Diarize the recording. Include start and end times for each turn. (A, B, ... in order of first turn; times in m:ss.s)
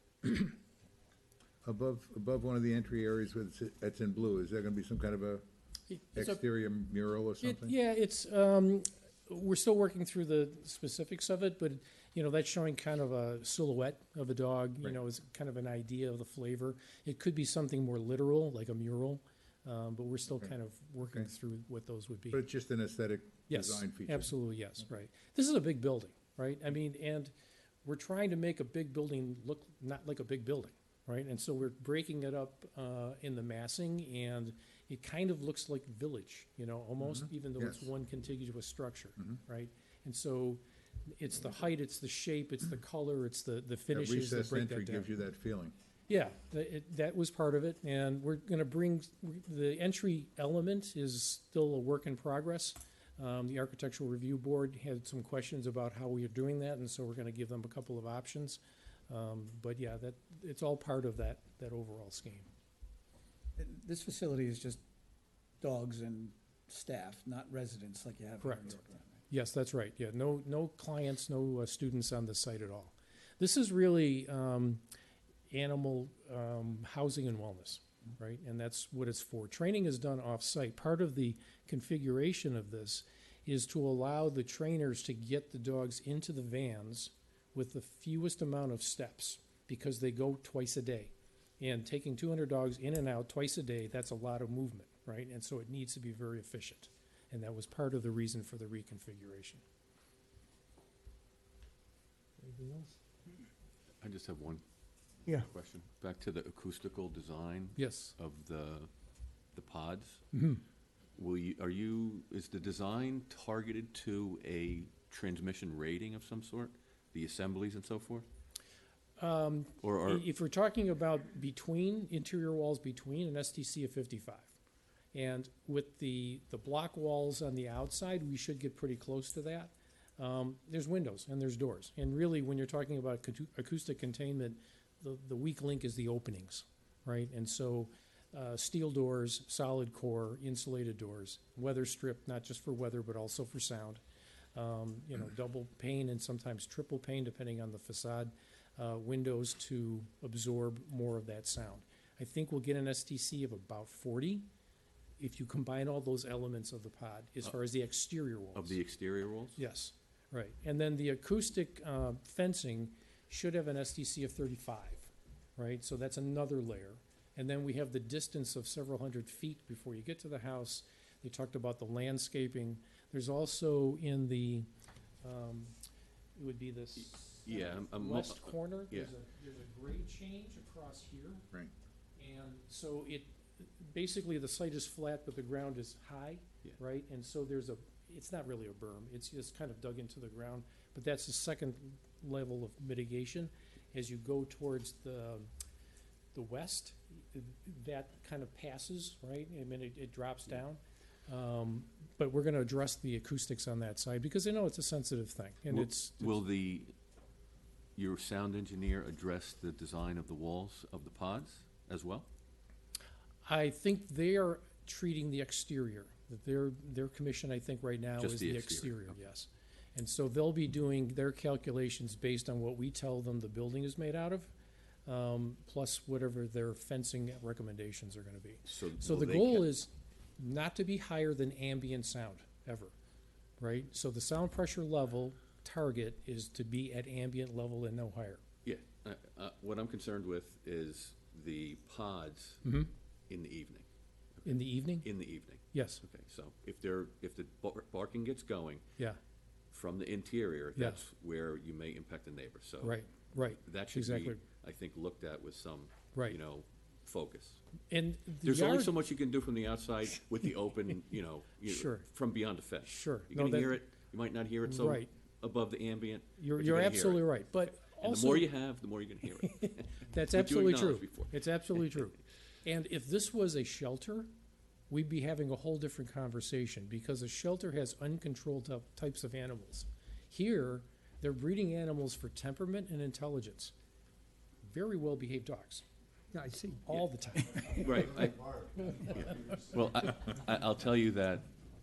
0:00.2-0:00.5 A
0:01.6-0:05.4 B
0:05.9-0:06.4 A
0:06.1-0:07.8 B
0:07.4-0:22.4 A
0:22.3-0:24.3 B
0:23.5-0:27.3 A
0:27.8-0:40.6 A
0:37.0-0:37.9 B
0:41.1-0:45.1 A
0:43.9-0:45.7 B
0:46.1-1:02.5 A
1:03.6-1:04.8 C
1:05.6-1:09.2 C
1:08.4-1:08.7 A
1:09.3-1:14.8 A
1:15.5-1:39.6 A
1:42.4-1:42.9 C
1:44.0-1:44.6 D
1:45.2-1:48.9 D
1:47.8-1:48.1 A
1:49.5-1:50.2 D
1:50.3-1:50.6 A
1:51.2-1:58.3 D
1:59.2-2:04.5 A
1:59.8-2:00.2 D
2:05.1-2:24.0 A
2:24.6-2:34.5 A
2:35.2-2:38.8 A
2:38.6-2:39.6 D
2:39.6-2:54.7 A
2:55.2-2:55.8 A
2:56.4-3:01.5 A
2:57.0-2:59.1 D
3:02.2-3:15.5 A
3:16.3-3:26.3 A
3:25.7-3:26.9 D
3:28.0-3:32.3 D
3:33.4-3:44.5 A
3:38.2-3:39.2 D
3:45.1-3:52.9 A
3:48.7-3:49.7 D
3:53.6-3:58.4 A
3:58.6-4:02.7 D
4:02.6-4:02.9 A
4:03.3-4:03.9 D
4:04.4-4:08.8 D
4:04.4-4:05.1 A
4:05.7-4:06.0 A
4:09.7-4:17.6 D
4:12.8-4:14.4 A
4:17.9-4:18.9 A
4:18.4-4:31.8 D
4:21.6-4:22.1 A
4:22.8-4:23.8 A
4:24.6-4:25.1 A
4:26.4-4:28.5 A
4:29.4-4:34.3 A
4:34.9-4:43.7 A
4:44.6-4:45.8 A
4:46.3-4:46.8 C
4:46.8-4:48.0 A
4:47.7-4:51.5 D